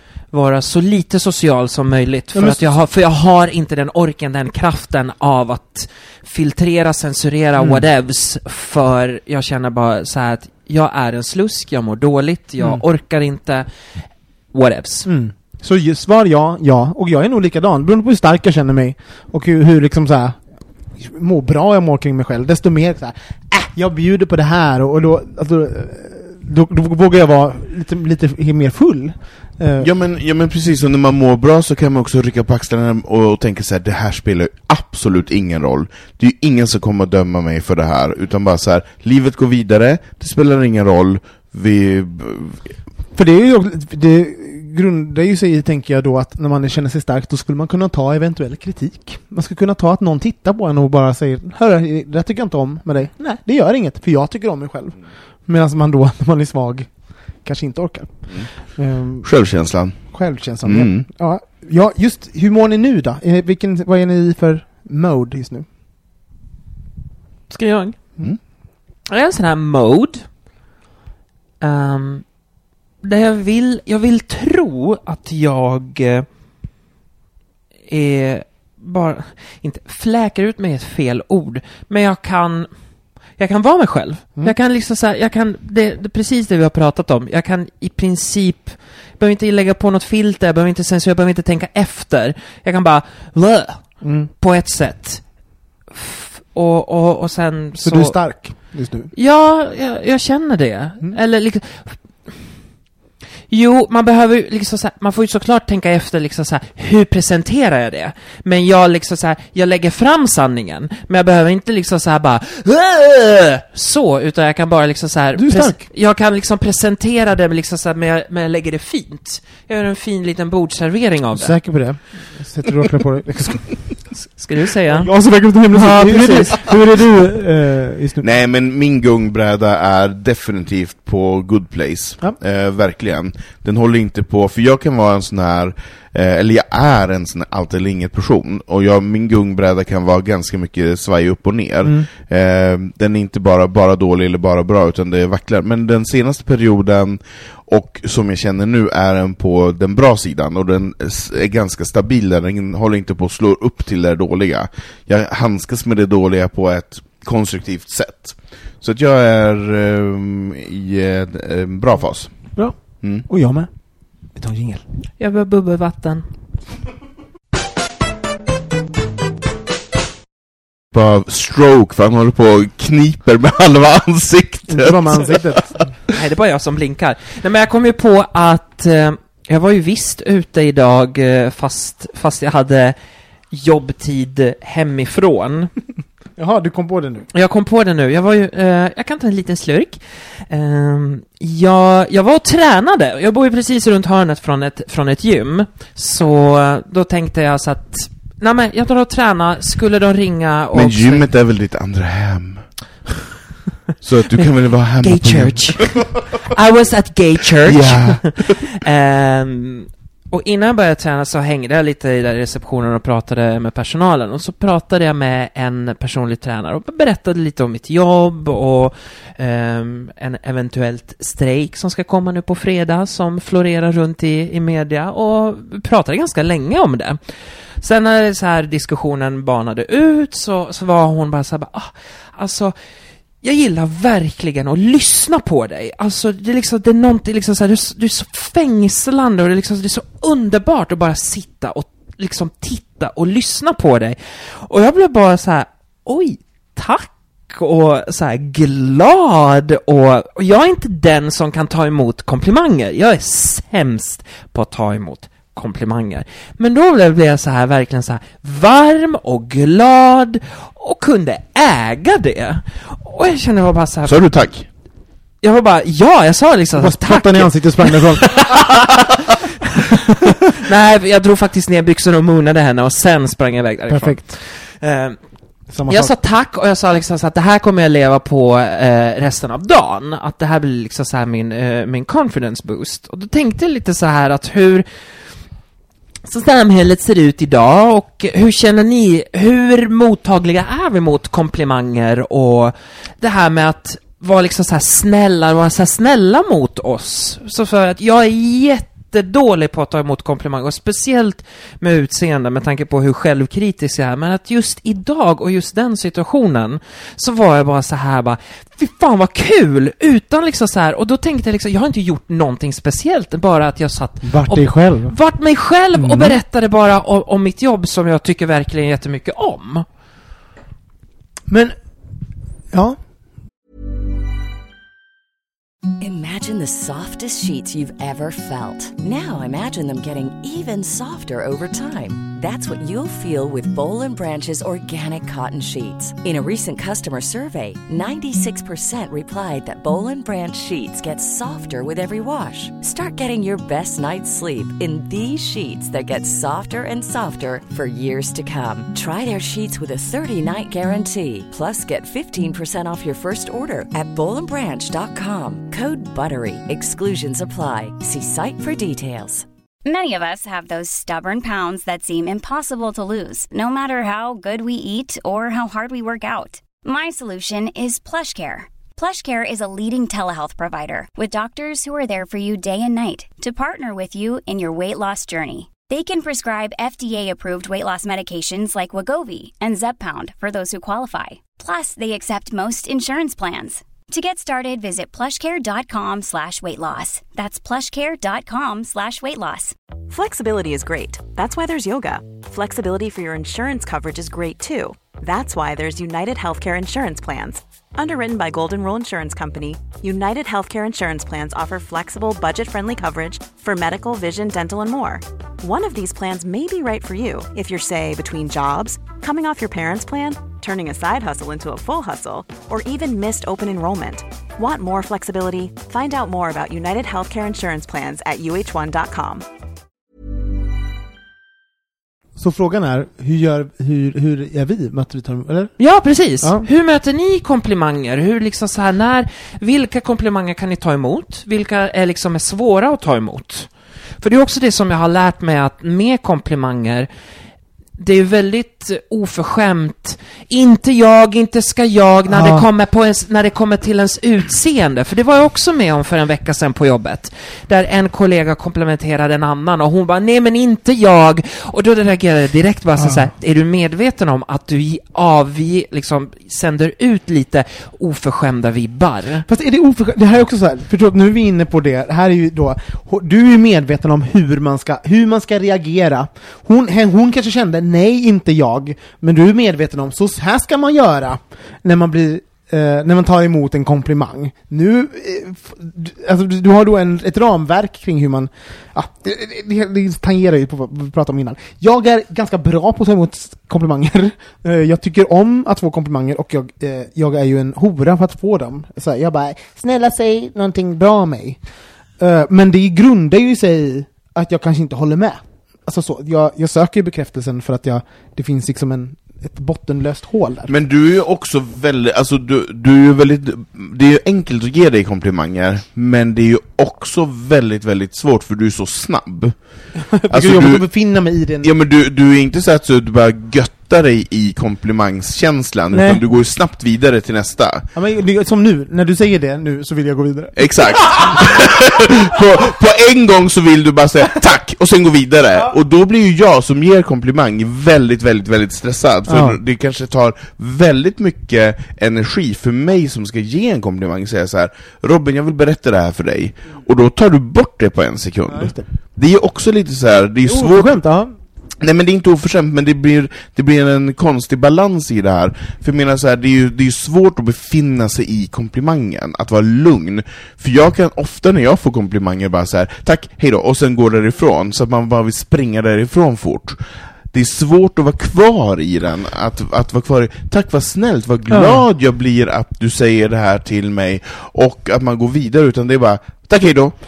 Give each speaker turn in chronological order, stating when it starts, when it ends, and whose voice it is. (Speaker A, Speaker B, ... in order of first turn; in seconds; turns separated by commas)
Speaker A: 0.3-13.7, Speaker B: 2.3-2.6, Speaker B: 7.6-7.8, Speaker A: 14.5-15.1, Speaker B: 15.1-20.4, Speaker B: 20.9-29.9, Speaker C: 29.8-42.6, Speaker B: 43.1-59.3, Speaker C: 59.2-61.1, Speaker B: 60.0-65.7, Speaker A: 67.5-68.1, Speaker A: 69.1-70.3, Speaker A: 71.6-72.2, Speaker A: 73.0-76.2, Speaker A: 77.9-82.7, Speaker A: 83.3-95.3, Speaker B: 94.0-94.3, Speaker A: 95.9-102.4, Speaker B: 97.8-99.1, Speaker A: 103.5-122.1, Speaker B: 115.4-115.8, Speaker B: 121.3-124.0, Speaker A: 124.2-125.1, Speaker B: 124.9-128.2, Speaker A: 125.7-126.6, Speaker C: 128.2-163.2, Speaker B: 162.5-163.7, Speaker B: 164.3-164.8, Speaker A: 165.2-166.2, Speaker C: 170.9-175.7, Speaker B: 174.7-175.7, Speaker A: 176.1-182.9, Speaker A: 183.5-185.7, Speaker B: 186.4-187.3, Speaker A: 187.3-201.2, Speaker C: 200.7-202.7, Speaker C: 204.0-206.1, Speaker A: 205.0-227.2, Speaker C: 207.7-208.6, Speaker A: 227.8-232.7, Speaker A: 233.4-264.3, Speaker C: 264.0-264.6, Speaker A: 265.4-269.3, Speaker B: 266.8-268.3, Speaker A: 270.5-275.2, Speaker B: 273.9-274.3, Speaker B: 275.7-276.1, Speaker A: 275.9-284.9, Speaker A: 286.2-319.9, Speaker B: 314.2-315.1, Speaker B: 315.9-316.4, Speaker B: 321.5-321.7, Speaker B: 322.7-323.0, Speaker D: 326.0-359.4, Speaker E: 359.8-389.7, Speaker F: 390.1-419.4, Speaker B: 422.4-425.7, Speaker A: 425.8-437.1, Speaker A: 438.0-459.4, Speaker B: 442.3-442.6, Speaker B: 453.0-453.3, Speaker B: 459.5-491.6, Speaker B: 492.2-500.7, Speaker C: 500.7-509.6, Speaker B: 510.0-511.7, Speaker C: 510.3-511.1, Speaker C: 511.6-517.9, Speaker B: 515.9-516.2, Speaker B: 517.9-521.6, Speaker C: 520.6-541.0, Speaker B: 529.3-529.6, Speaker B: 538.5-538.9, Speaker B: 540.5-541.3, Speaker C: 541.8-556.8, Speaker C: 557.3-566.9, Speaker B: 561.5-561.8